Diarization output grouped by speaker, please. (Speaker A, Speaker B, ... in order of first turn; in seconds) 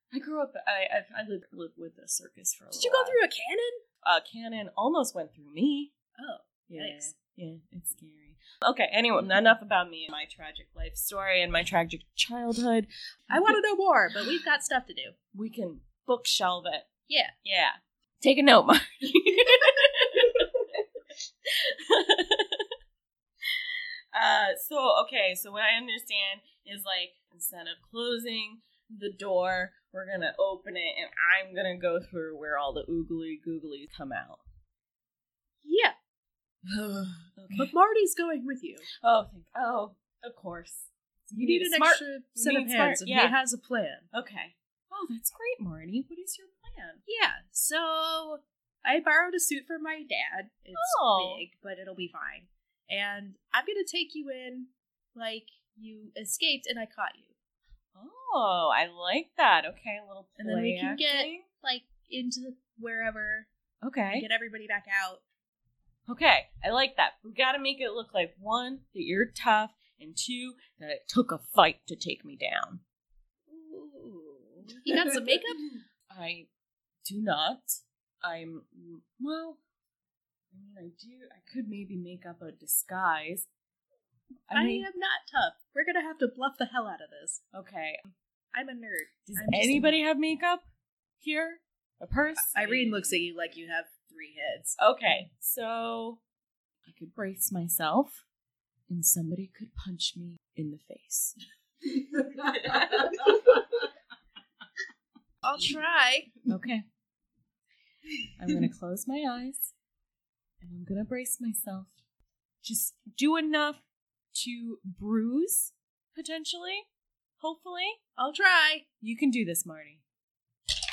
Speaker A: 0.1-3.2, 4.0-5.9, 6.7-13.4, 15.3-16.9, 17.4-20.8, 21.4-22.7, 23.4-34.4, 36.6-37.7, 39.0-43.3, 44.1-47.0, 50.7-51.4, 57.9-61.5, 63.8-64.2, 66.1-72.8, 76.1-76.5, 77.0-79.6, 80.5-83.5, 84.5-84.9, 87.5-88.1, 89.2-90.6, 91.2-93.2, 94.8-96.2, 96.9-98.2, 98.9-101.3, 102.4-103.3, 106.5-106.8, 108.4-109.7, 110.6-111.9, 112.6-113.8, 114.3-116.8, 117.4-118.0, 119.0-120.0
Speaker B: 2.7-3.8, 6.2-7.1, 13.3-15.2, 35.6-36.0, 37.5-38.9, 41.4-44.1, 47.0-57.3, 60.4-63.5, 64.1-65.2, 73.5-75.6, 84.5-87.4, 88.5-90.0, 92.3-94.8, 105.4-106.3, 118.2-118.8